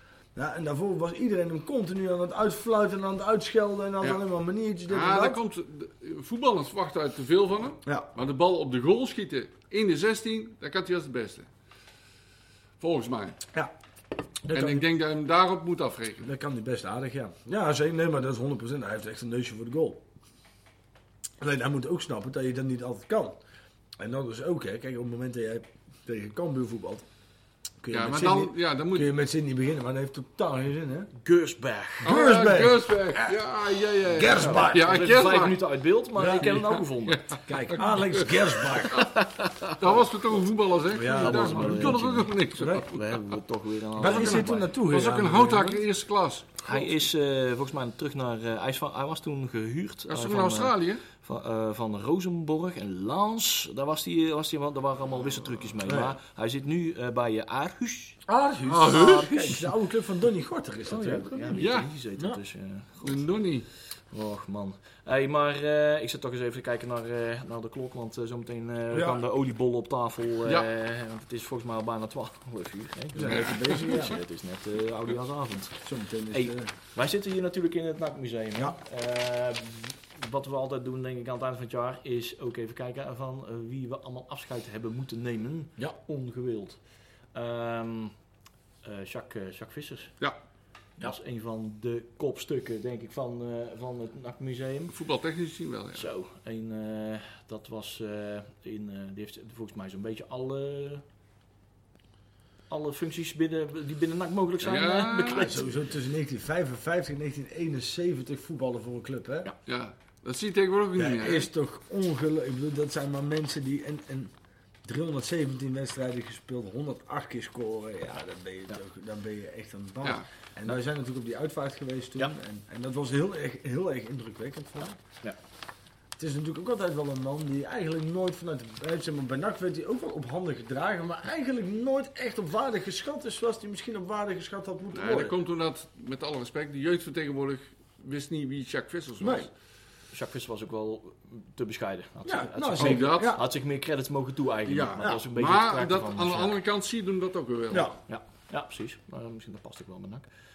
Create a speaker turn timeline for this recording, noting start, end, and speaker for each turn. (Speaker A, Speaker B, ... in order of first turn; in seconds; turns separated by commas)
Speaker A: 0.3-5.4, Speaker B: 4.9-11.5, Speaker B: 12.8-13.4, Speaker A: 14.4-14.8, Speaker B: 14.5-16.3, Speaker A: 16.2-20.1, Speaker A: 21.4-23.4, Speaker A: 24.0-27.1, Speaker A: 27.8-31.1, Speaker B: 27.9-29.1, Speaker C: 31.1-32.1, Speaker A: 32.0-33.4, Speaker B: 32.0-35.6, Speaker A: 34.1-35.1, Speaker C: 34.3-37.7, Speaker A: 36.2-36.6, Speaker B: 36.4-39.1, Speaker A: 37.5-39.1, Speaker C: 38.8-40.1, Speaker B: 39.7-43.2, Speaker A: 40.9-42.9, Speaker C: 41.0-44.7, Speaker A: 44.0-45.8, Speaker B: 44.0-46.8, Speaker C: 46.6-58.2, Speaker B: 50.1-51.0, Speaker A: 55.9-56.2, Speaker A: 58.3-61.7, Speaker B: 58.7-59.4, Speaker C: 58.8-59.6, Speaker C: 60.9-86.8, Speaker B: 61.6-61.9, Speaker B: 63.0-63.7, Speaker A: 68.9-69.2, Speaker A: 73.1-74.2, Speaker B: 73.3-74.0, Speaker A: 75.8-76.7, Speaker C: 87.3-88.2, Speaker C: 88.8-90.1, Speaker C: 91.0-94.9, Speaker B: 94.9-96.1, Speaker C: 95.9-101.0, Speaker C: 102.7-105.7, Speaker B: 104.6-105.5, Speaker A: 105.3-109.5, Speaker B: 109.7-111.5, Speaker A: 111.0-114.3, Speaker A: 114.8-125.0, Speaker A: 126.2-135.3, Speaker B: 134.9-139.5, Speaker A: 139.2-139.5, Speaker C: 140.1-146.6, Speaker A: 142.2-143.4, Speaker B: 142.8-143.4, Speaker B: 144.7-147.9, Speaker A: 147.7-148.0, Speaker C: 148.1-150.3